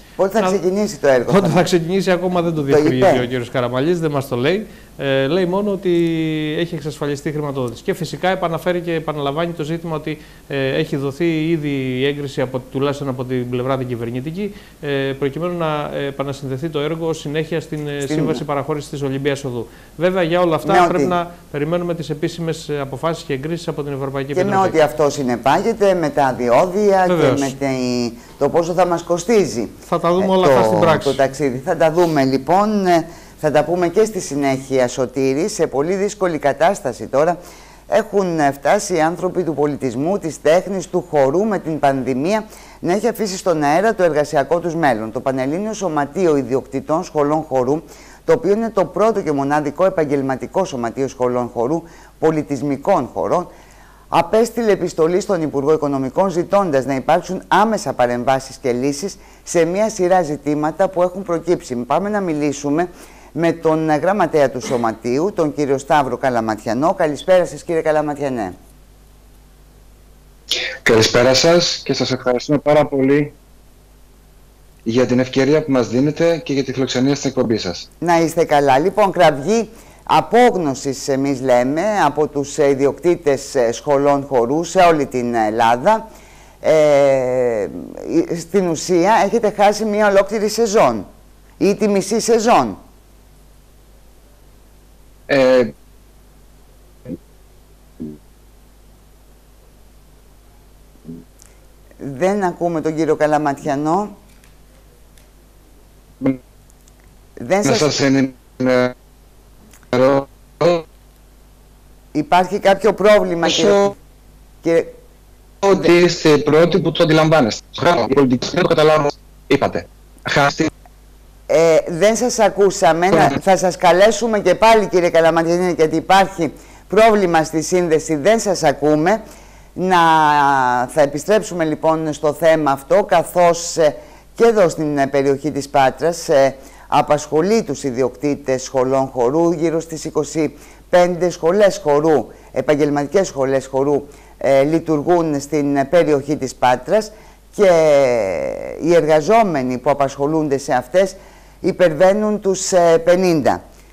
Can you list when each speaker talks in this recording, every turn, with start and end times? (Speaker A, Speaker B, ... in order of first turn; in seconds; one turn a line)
Speaker A: 0.2-1.7
Speaker B: 1.3-24.8
Speaker A: 2.7-3.3
Speaker A: 18.1-18.4
Speaker A: 20.6-21.1
Speaker A: 24.3-37.4
Speaker B: 27.1-27.5
Speaker B: 29.9-31.2
Speaker A: 37.9-53.5
Speaker A: 54.1-68.6
Speaker C: 70.8-73.3
Speaker C: 74.9-77.8
Speaker A: 78.0-86.1
Speaker A: 86.6-91.1
Speaker A: 91.6-92.8
Speaker C: 95.3-95.7
Speaker A: 102.0-104.2
Speaker A: 107.4-108.0
Speaker C: 107.7-108.9
Speaker C: 109.9-110.8
Speaker A: 112.1-114.0
Speaker A: 114.6-115.0
Speaker C: 115.6-120.7
Speaker A: 121.5-129.2
Speaker A: 129.8-153.6